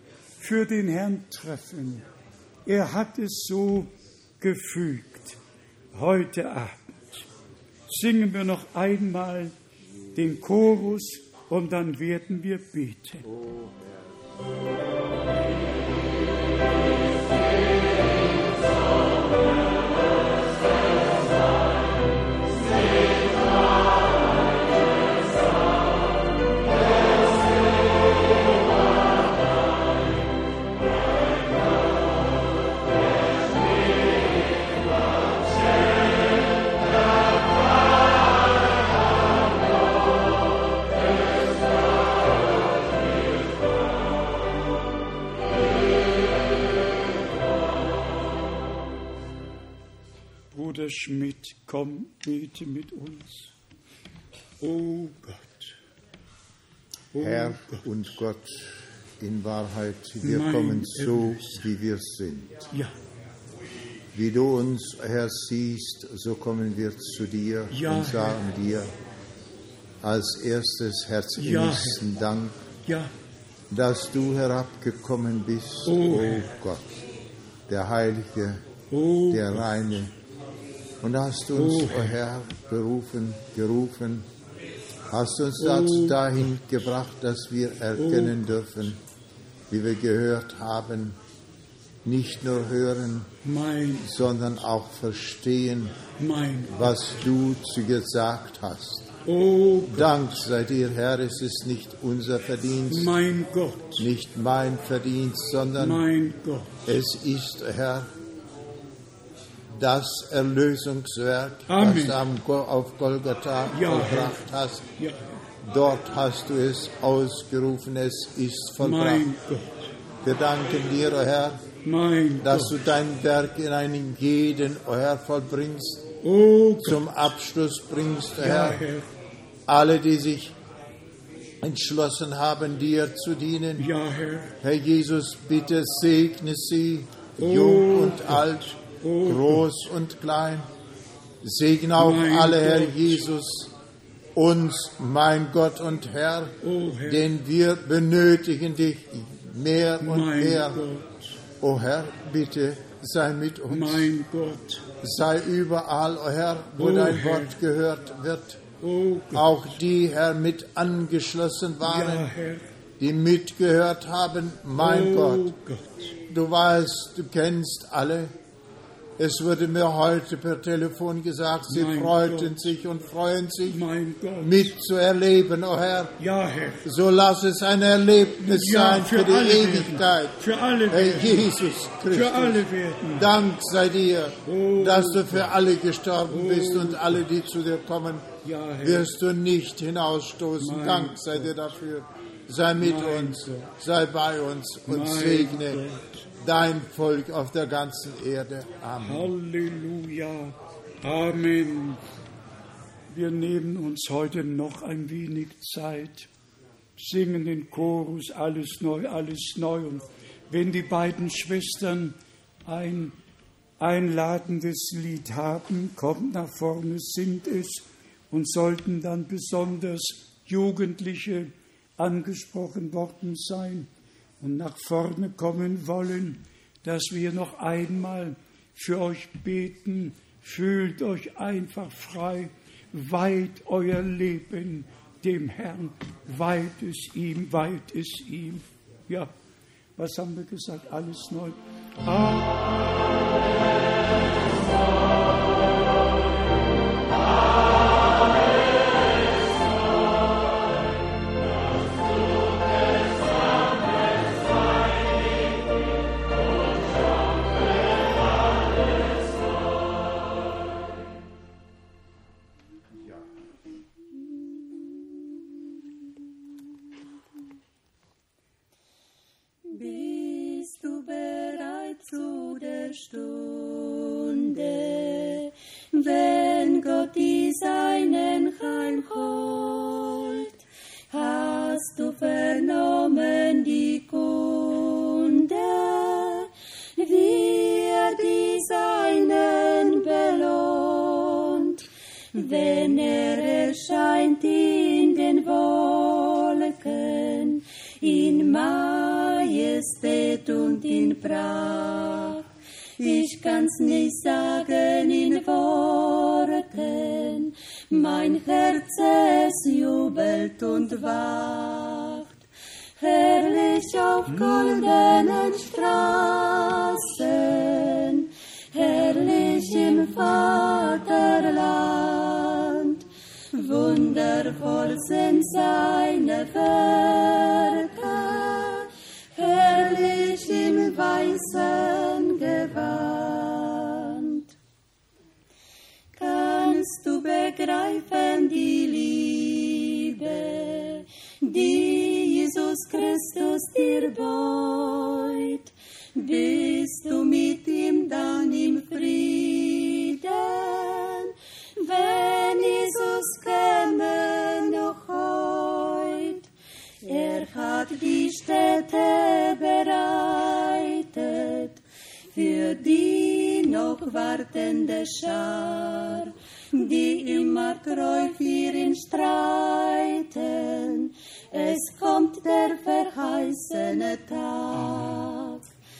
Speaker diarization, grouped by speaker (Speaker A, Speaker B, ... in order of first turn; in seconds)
Speaker A: 0.4-2.0, 2.6-5.4, 5.9-7.3, 7.9-9.5, 10.1-13.3, 50.5-53.5, 54.6-55.8, 57.1-58.2, 60.2-61.7, 67.7-68.4, 71.4-72.0, 72.8-73.1, 75.8-76.5, 78.9-79.7, 81.5-82.2, 85.6-86.3, 87.9-88.5, 93.4-94.3, 96.2-96.9, 99.2-100.1, 102.9-104.1, 105.8-107.0, 111.7-112.2, 113.7-115.4, 118.8-119.7, 121.8-122.8, 126.2-127.0, 128.4-129.1, 133.8-134.6, 137.4-139.8, 142.0-143.3, 146.6-147.3, 150.0-151.3, 153.7-154.8, 156.8-157.6, 158.8-159.8, 161.8-162.7, 164.8-166.2, 171.7-172.7, 173.7-174.8, 176.2-176.9, 178.4-183.3, 184.4-185.5, 186.2-187.2, 188.4-189.1, 190.6-191.6, 192.8-193.7, 194.9-196.2, 199.0-202.0, 203.1-206.3, 207.0-213.2, 213.8-223.9, 224.4-239.3, 240.0-242.6
Speaker B: 57.2-62.6, 64.1-68.9, 70.0-72.6, 73.7-76.9, 77.7-78.6, 79.3-80.1, 81.0-84.3, 85.1-89.0, 89.7-91.2, 92.0-93.3, 94.0-96.0, 96.7-99.1, 99.9-103.1, 104.0-106.0, 106.8-108.1, 109.7-114.8, 115.6-119.3, 120.2-121.6, 122.4-126.1, 126.8-128.8, 129.7-130.5, 131.6-133.9, 134.6-140.7, 141.4-143.7, 144.3-150.8, 151.6-154.1, 155.0-158.6, 159.3-162.3, 163.0-165.5, 166.3-168.3, 169.2-173.8, 174.4-176.1, 176.8-180.4, 180.9-195.8, 196.4-199.3
Speaker C: 269.6-302.4, 303.0-312.4, 313.0-334.5, 336.1-356.5, 357.0-361.8, 362.3-375.6